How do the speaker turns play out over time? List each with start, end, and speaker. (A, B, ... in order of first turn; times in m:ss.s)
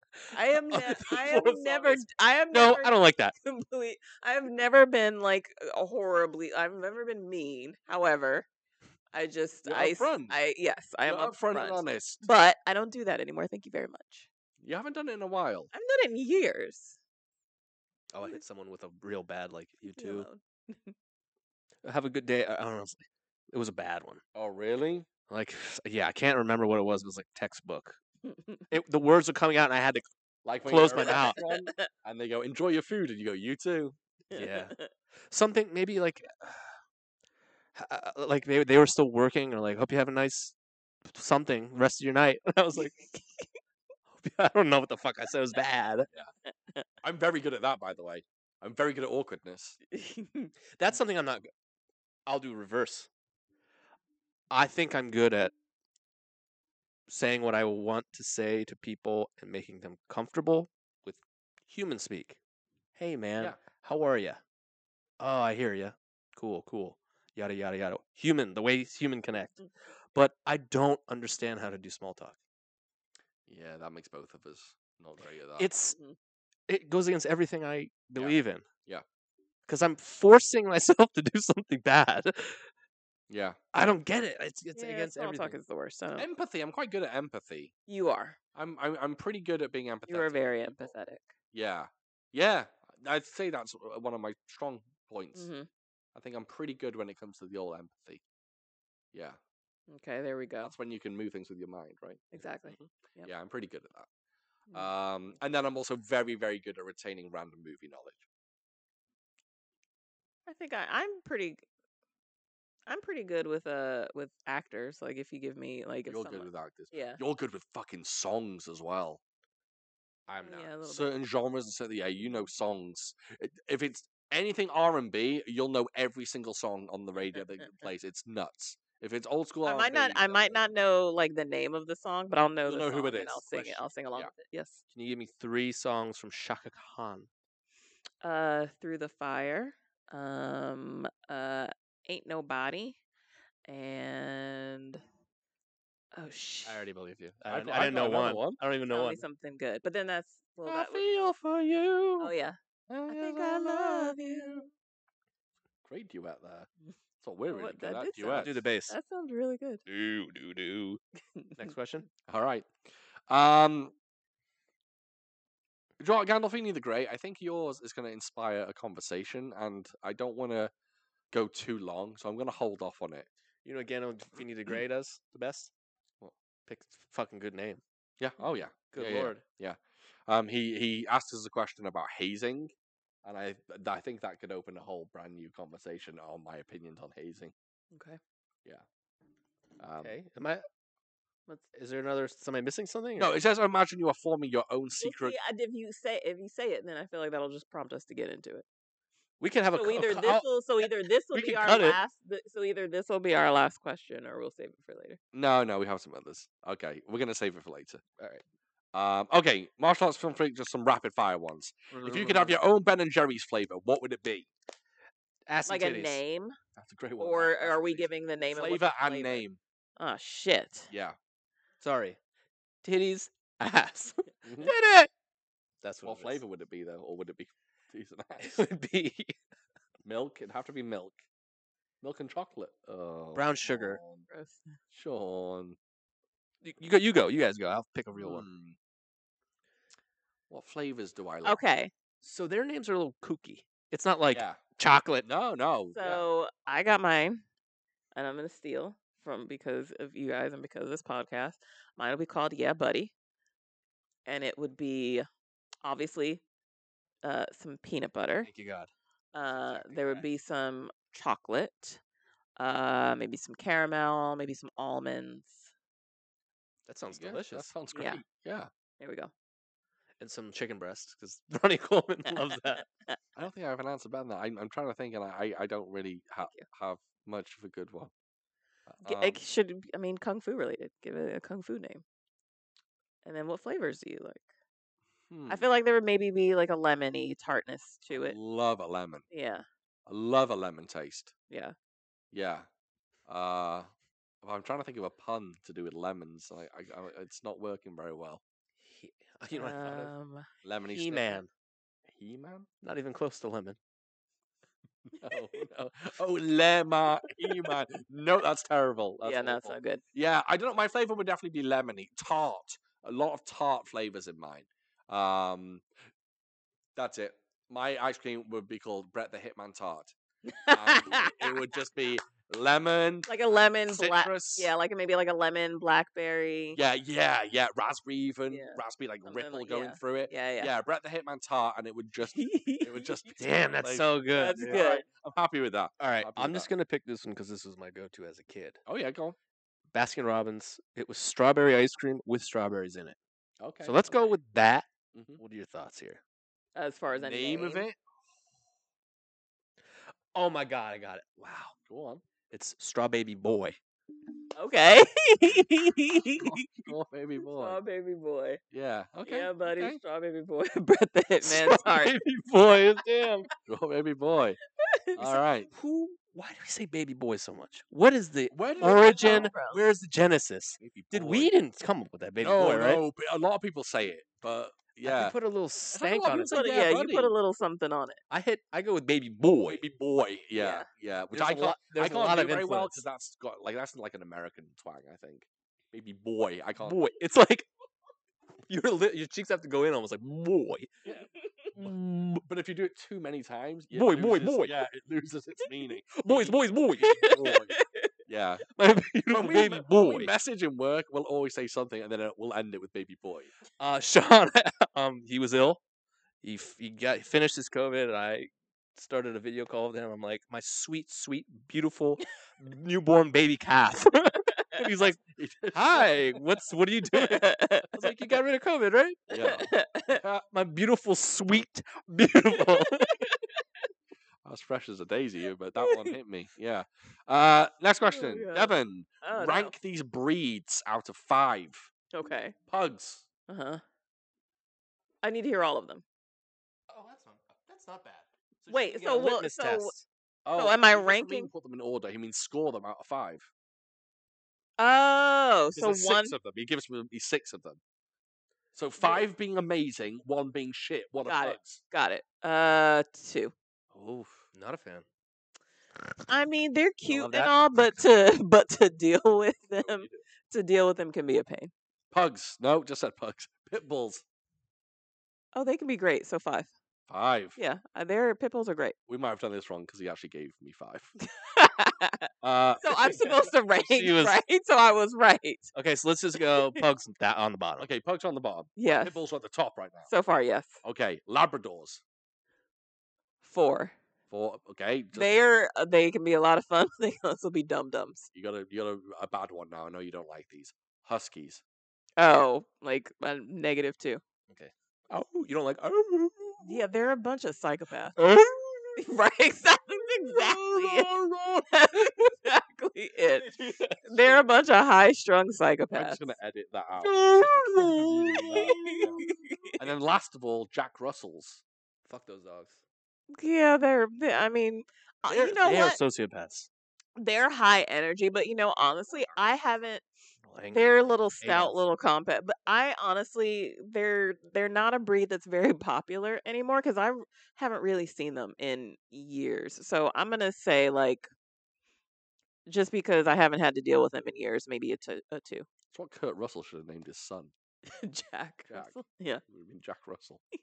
0:00.2-0:03.3 A
0:00.3-0:08.5 B
0:09.1-0:14.3 B
0:09.6-0:10.4 C
0:11.0-0:12.3 C
0:14.6-0:15.7 C
0:15.7-0:17.0 B
0:18.1-0:20.3 A
0:19.9-0:20.9 B
0:21.8-0:24.2 A
0:24.4-0:25.1 C
0:25.3-0:28.0 A
0:28.7-0:30.0 A
0:30.4-0:34.0 C
0:30.6-0:31.4 A
0:31.0-0:31.9 B
0:34.3-0:34.9 B
0:34.3-0:34.7 A
0:35.3-0:36.8 A
0:37.8-0:40.6 A
0:41.1-0:43.0 A
0:42.8-0:43.5 B
0:44.1-0:46.1 A
0:47.0-0:49.8 C
0:49.9-0:50.5 B
0:50.8-0:51.5 A
0:52.3-0:53.1 A
0:54.5-0:55.5 A
0:57.1-1:02.4 A
1:03.0-1:04.4 A
1:05.2-1:12.4 A
1:13.5-1:15.7 C
1:15.6-1:16.0 A
1:16.7-1:18.6 A
1:18.2-1:19.0 C
1:19.7-1:22.7 A
1:23.3-1:23.6 C
1:23.7-1:25.6 A
1:24.7-1:26.3 B
1:26.2-1:27.7 C
1:27.9-1:28.4 B
1:28.6-1:30.9 C
1:30.1-1:31.3 B
1:31.5-1:35.5 C
1:35.4-1:35.7 B
1:36.2-1:38.2 C
1:39.1-1:39.4 C
1:39.9-1:40.7 B
1:40.6-1:44.1 C
1:42.3-1:43.3 B
1:44.7-1:48.2 C
1:50.5-1:51.6 B
1:52.9-1:57.2 B
1:56.1-1:59.2 C
2:00.3-2:10.7 C
2:00.4-2:01.2 B
2:07.4-2:07.8 B
2:09.7-2:14.8 B
2:12.7-2:14.3 C
2:14.9-2:17.3 A
2:18.2-2:23.0 B
2:23.7-2:25.0 B
2:26.1-2:26.9 B
2:26.7-2:28.6 C
2:27.4-2:29.2 A
2:28.9-2:31.0 B
2:30.7-2:32.3 C
2:32.2-2:32.6 B
2:32.9-2:34.7 C
2:33.1-2:34.7 B
2:35.8-2:36.7 C
2:37.2-2:38.6 C
2:37.5-2:39.8 B
2:38.3-2:39.0 A
2:39.9-2:41.0 A
2:41.6-2:42.1 A
2:42.3-2:42.7 C
2:43.3-2:43.9 C
2:46.0-2:50.7 C
2:51.3-2:53.3 C
2:53.6-2:55.7 A
2:56.7-2:57.8 A
2:58.2-3:07.5 C
2:58.9-2:59.4 A
3:07.9-3:08.2 B
3:09.8-3:10.1 C
3:10.0-3:10.6 A
3:11.7-3:13.4 A
3:13.2-3:15.4 C
3:15.0-3:18.6 B
3:19.4-3:22.0 A
3:19.7-3:25.2 B
3:25.3-3:28.3 C
3:28.9-3:34.5 C
3:31.9-3:32.6 A
3:35.5-3:36.2 A
3:35.7-3:36.6 B
3:36.8-3:39.6 C
3:37.2-3:39.4 B
3:40.0-3:40.9 B
3:40.9-3:41.2 C
3:41.8-3:42.2 A
3:42.8-3:45.1 A
3:44.4-3:44.7 C
3:45.8-3:46.4 A
3:46.0-3:48.6 C
3:48.4-3:49.4 A
3:50.0-3:51.2 C
3:52.0-3:54.3 C
3:53.4-3:54.0 A
3:54.3-3:54.8 B
3:54.9-3:55.8 C
3:56.6-3:58.5 A
3:58.2-3:58.8 C
4:00.5-4:01.6 C
4:01.4-4:01.9 B
4:02.2-4:05.3 A
4:04.3-4:04.6 C
4:05.2-4:06.2 C
4:06.0-4:07.4 B
4:08.2-4:13.1 B
4:14.3-4:15.3 B
4:15.8-4:16.4 B
4:17.2-4:18.5 B
4:18.4-4:18.9 A
4:19.3-4:22.0 B
4:19.5-4:20.2 A
4:22.6-4:25.7 B
4:26.9-4:27.7 A
4:27.1-4:28.7 C
4:27.9-4:28.2 B
4:29.0-4:29.3 B
4:30.2-4:32.9 A
4:33.4-4:38.1 C
4:38.9-4:39.4 C
4:39.0-4:42.0 B
4:43.2-4:44.5 B
4:45.3-4:45.7 C
4:45.5-4:48.4 B
4:48.1-4:49.2 C
4:49.3-4:49.6 B
4:50.1-4:51.3 C
4:51.5-4:51.7 B
4:52.3-4:52.7 C
4:53.3-4:53.9 C
4:54.4-4:58.4 C
4:58.8-5:00.1 A
4:59.5-5:00.4 B
5:00.6-5:01.4 C
5:00.9-5:01.5 A
5:02.1-5:02.7 C
5:02.8-5:03.8 A
5:05.1-5:15.8 C
5:09.2-5:10.0 B
5:17.0-5:20.1 C
5:20.4-5:21.6 B
5:20.7-5:24.7 C
5:23.3-5:26.8 B
5:26.7-5:36.7 C
5:28.5-5:30.7 B
5:32.3-5:33.3 B
5:33.4-5:34.8 A
5:34.4-5:35.0 B
5:36.0-5:38.8 A
5:38.9-5:39.4 C
5:39.9-5:43.2 A
5:43.6-5:44.3 C
5:43.8-5:46.2 A
5:45.1-5:45.4 C
5:46.7-5:47.9 B
5:47.1-5:48.0 C
5:50.3-5:51.7 A
5:51.7-5:52.2 C
5:52.5-5:53.8 A
5:54.6-5:56.7 B
5:56.4-5:57.8 C
5:57.4-5:58.6 B
5:58.7-6:00.0 C
5:59.3-6:02.2 B
6:01.4-6:03.5 A
6:03.7-6:04.6 C
6:04.8-6:05.4 B
6:05.2-6:05.7 C
6:05.7-6:13.0 A
6:08.5-6:09.5 C
6:08.8-6:09.8 B
6:10.8-6:11.5 C
6:12.4-6:15.4 C
6:15.0-6:16.7 A
6:15.9-6:17.3 C
6:16.5-6:18.2 B
6:18.3-6:19.8 A
6:19.6-6:27.1 C
6:20.6-6:20.9 B
6:21.3-6:23.0 A
6:26.8-6:27.7 A
6:28.7-6:30.9 A
6:31.0-6:32.0 C
6:31.7-6:32.4 A
6:32.4-6:38.7 C
6:33.9-6:34.7 A
6:36.2-6:37.2 A
6:37.0-6:38.1 B
6:38.7-6:40.3 A
6:39.3-6:43.5 C
6:43.8-6:45.8 A
6:46.4-6:59.2 A
6:55.2-6:56.3 C
6:57.2-6:57.9 B
6:59.3-7:00.4 C
6:59.4-7:00.2 B
7:00.5-7:03.3 A
7:02.7-7:03.6 B
7:04.4-7:11.9 C
7:05.8-7:06.2 B
7:08.0-7:09.7 B
7:12.1-7:12.6 B
7:12.7-7:13.3 C
7:13.5-7:13.8 B
7:15.2-7:16.0 B
7:16.9-7:20.1 A
7:18.7-7:19.9 B
7:20.4-7:23.5 C
7:20.5-7:21.5 B
7:24.8-7:26.4 B
7:25.7-7:27.8 C
7:28.7-7:31.8 C
7:29.0-7:29.3 B
7:31.2-7:33.5 B
7:33.9-7:35.1 A
7:36.3-7:41.7 B
7:37.1-7:37.6 A
7:39.8-7:40.2 C
7:42.1-7:44.2 C
7:45.5-7:46.7 B
7:47.1-7:47.6 C
7:47.6-7:49.0 B
7:49.1-7:51.2 C
7:51.4-7:52.3 B
7:52.4-7:53.2 C
7:52.8-7:55.7 B
7:53.0-7:54.4 A
7:55.7-7:57.9 A
7:56.4-7:56.8 B
7:57.8-8:00.1 C
7:58.8-7:59.2 B
8:00.1-8:00.8 B
8:00.8-8:02.0 C
8:03.4-8:04.0 B
8:04.3-8:05.3 C
8:05.1-8:08.3 B
8:08.3-8:11.6 C
8:12.2-8:14.2 B
8:14.5-8:16.8 A
8:16.6-8:18.2 B
8:18.2-8:19.0 A
8:19.0-8:21.1 B
8:20.3-8:21.7 A
8:21.7-8:26.3 B
8:23.4-8:24.4 A
8:25.9-8:29.2 C
8:27.0-8:29.2 A
8:28.3-8:29.7 B
8:29.8-8:31.6 C
8:32.0-8:32.8 A
8:33.3-8:36.0 B
8:35.3-8:36.7 A
8:37.2-8:40.0 B
8:40.4-8:41.7 A
8:40.7-8:51.3 B
8:52.7-8:55.7 B
8:55.9-8:57.5 C
8:57.9-8:59.4 B
8:58.7-8:59.0 C
8:59.5-9:00.4 C